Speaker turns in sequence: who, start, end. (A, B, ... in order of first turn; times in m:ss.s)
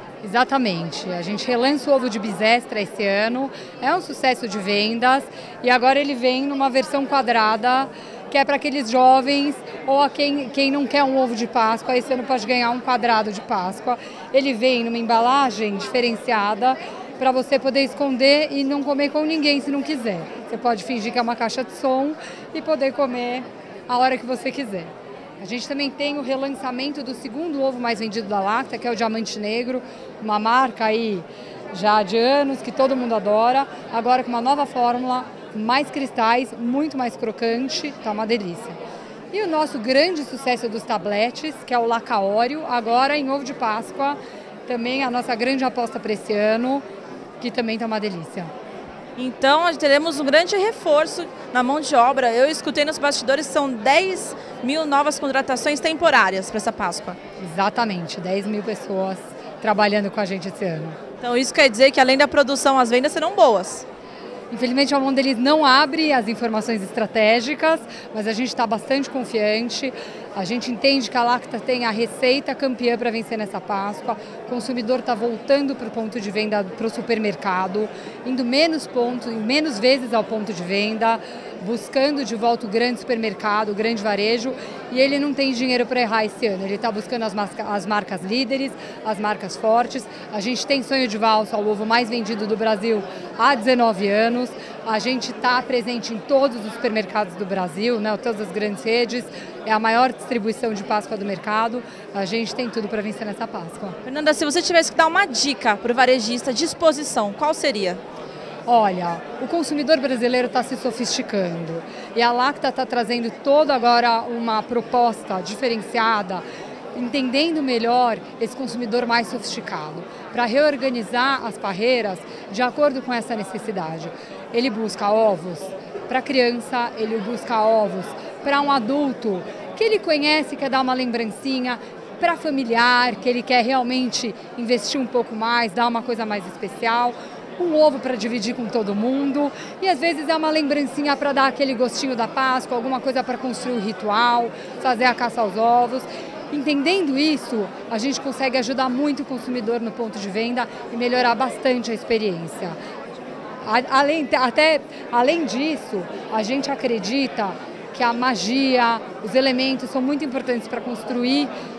0:00.2-0:38.8 A
0:39.3-0:46.8 A
0:47.4-0:48.5 A
0:49.2-0:57.2 B
0:57.4-1:01.0 A
1:01.2-1:03.8 B
1:04.5-1:44.0 A
1:44.0-1:48.0 B
1:48.6-1:56.4 A
1:56.9-2:32.8 A
2:33.6-2:41.5 A